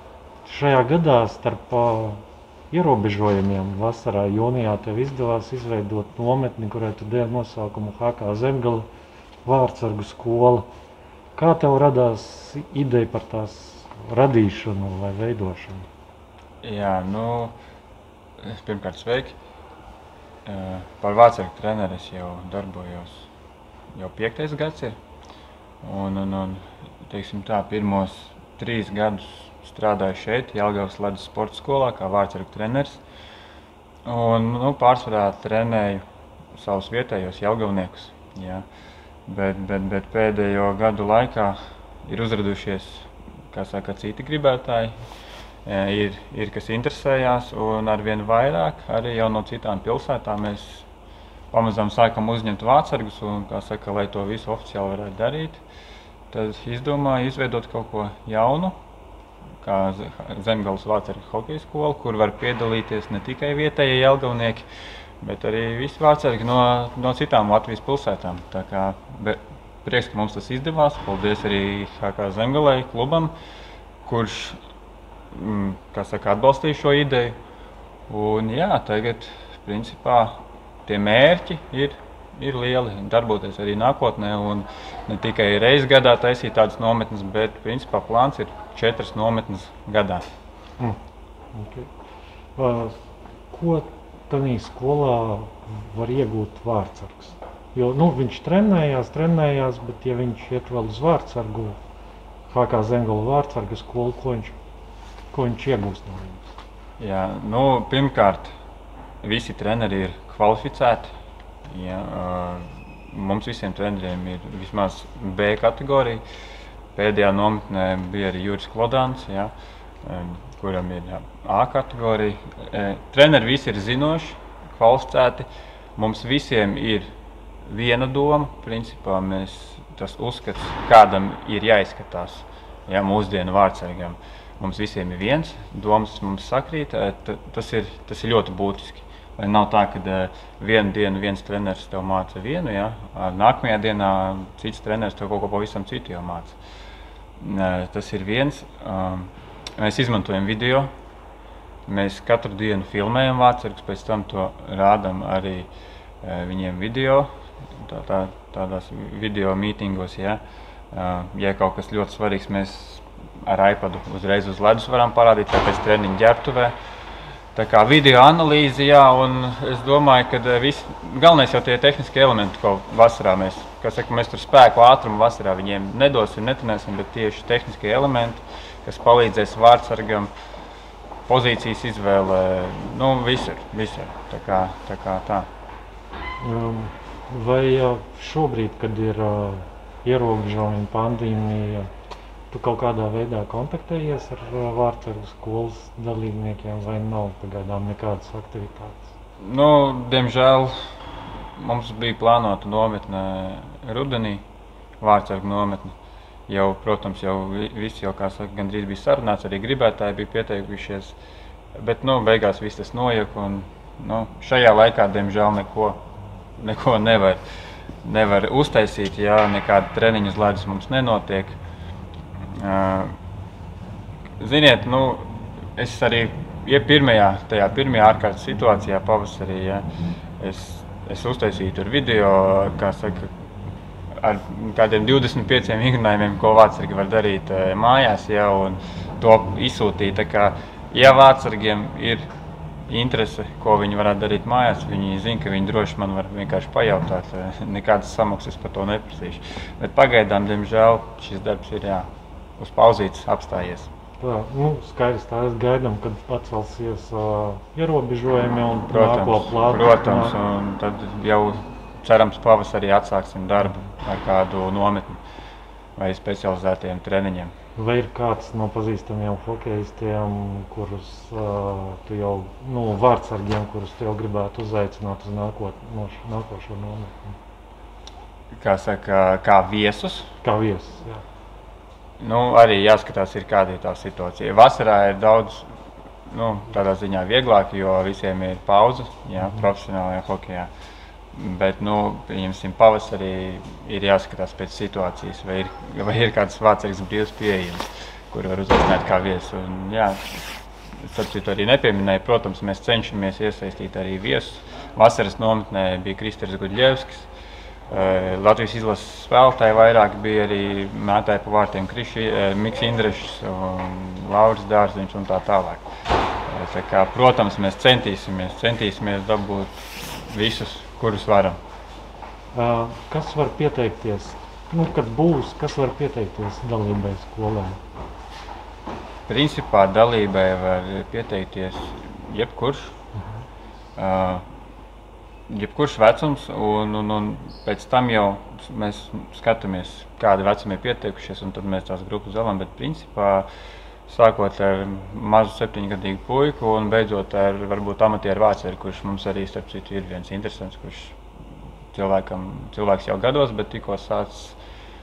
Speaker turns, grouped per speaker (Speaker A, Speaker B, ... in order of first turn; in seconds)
Speaker A: 0.5-8.9, 9.4-10.7, 11.3-15.9, 91.5-91.9, 92.6-93.0, 93.5-101.8, 102.5-104.5, 105.3-106.5, 186.4-191.9, 192.5-199.1, 254.2-260.3, 267.8-277.3, 280.4-281.2, 322.5-327.8
Speaker B: 16.6-17.6, 18.4-19.4, 20.4-23.3, 23.9-25.0, 25.8-33.0, 34.0-36.0, 36.5-38.6, 39.3-45.0, 45.7-50.9, 51.5-55.6, 56.3-58.8, 59.6-64.7, 65.2-73.3, 74.0-74.6, 75.3-77.4, 78.1-90.2, 107.0-108.5, 109.2-111.1, 111.7-116.2, 117.0-119.5, 120.0-127.1, 127.7-146.6, 147.4-150.9, 151.9-155.7, 156.2-160.4, 160.9-166.8, 167.6-180.3, 181.3-185.5, 199.4-200.8, 201.6-204.4, 205.0-205.9, 206.5-211.2, 211.8-216.0, 216.6-217.4, 218.0-221.6, 222.6-223.1, 224.4-229.8, 230.4-233.3, 234.2-242.3, 242.9-253.9, 258.9-265.2, 266.0-267.5, 278.5-280.3, 282.2-285.7, 286.3-290.7, 291.3-300.4, 301.0-307.3, 307.9-315.8, 316.5-321.6, 329.3-332.9, 334.0-334.4, 335.5-343.5, 344.1-351.2, 351.9-354.6